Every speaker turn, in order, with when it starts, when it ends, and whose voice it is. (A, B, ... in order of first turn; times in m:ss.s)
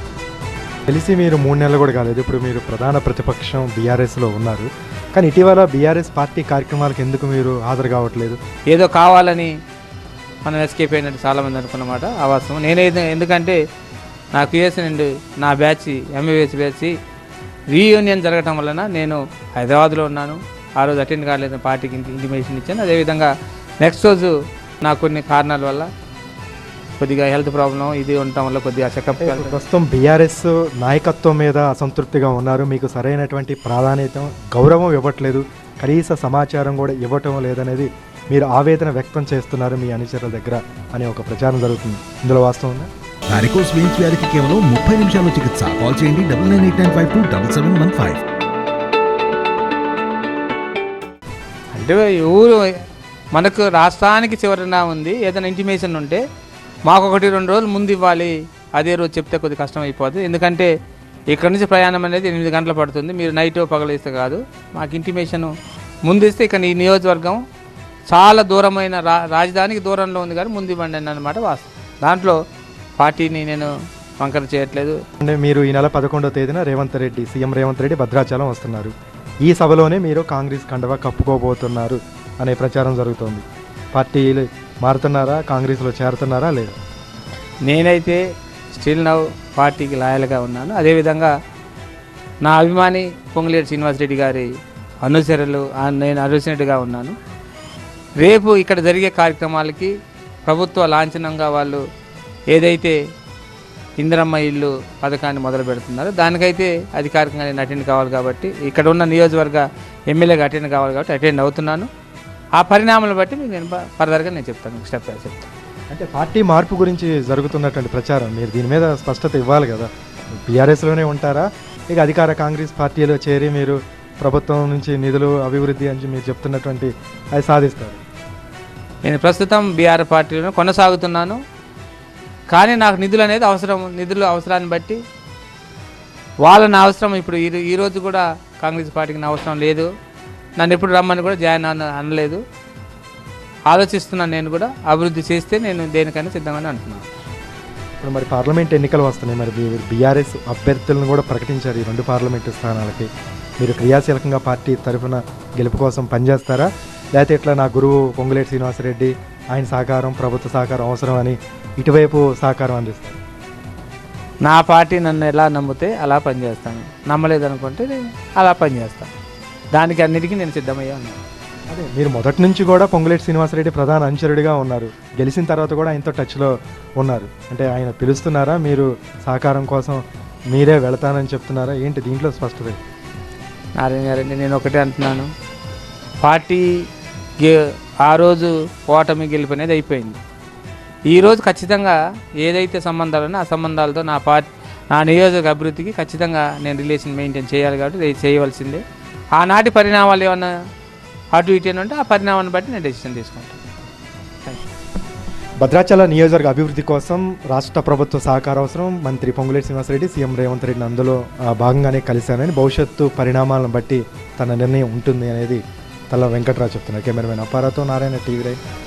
0:00.9-0:08.4 A
0:08.7-0:09.5 B
0:10.4-0:13.6 B
0:14.3-0:16.9 B
0:17.7-0:25.9 B
0:27.0-0:29.6 B
0:29.2-0:42.9 A
0:43.3-0:48.2 C
0:51.7-0:52.6 B
0:53.3-0:56.2 B
0:56.9-1:00.7 B
1:01.3-1:05.5 B
1:06.0-1:07.4 B
1:08.1-1:12.4 B
1:13.0-1:15.0 B
1:15.2-1:18.9 A
1:19.4-1:26.8 A
1:27.6-1:28.2 B
1:28.7-1:31.3 B
1:32.4-1:34.5 B
1:35.0-1:37.2 B
1:38.2-1:39.9 B
1:40.4-1:41.8 B
1:42.5-1:43.0 B
1:44.0-1:51.9 B
1:52.6-1:55.5 B
1:55.9-1:59.9 A
2:00.4-2:08.0 A
2:09.0-2:11.4 B
2:12.5-2:15.0 B
2:16.4-2:19.9 B
2:20.6-2:22.4 B
2:23.7-2:27.0 B
2:28.0-2:33.1 A
2:33.6-2:43.2 A
2:44.4-2:49.1 B
2:49.7-2:51.2 B
2:51.7-3:02.8 A
3:03.8-3:05.3 B
3:06.2-3:06.8 B
3:07.4-3:10.2 B
3:11.1-3:18.8 B
3:19.3-3:20.5 B
3:21.3-3:23.6 B
3:25.6-3:38.6 A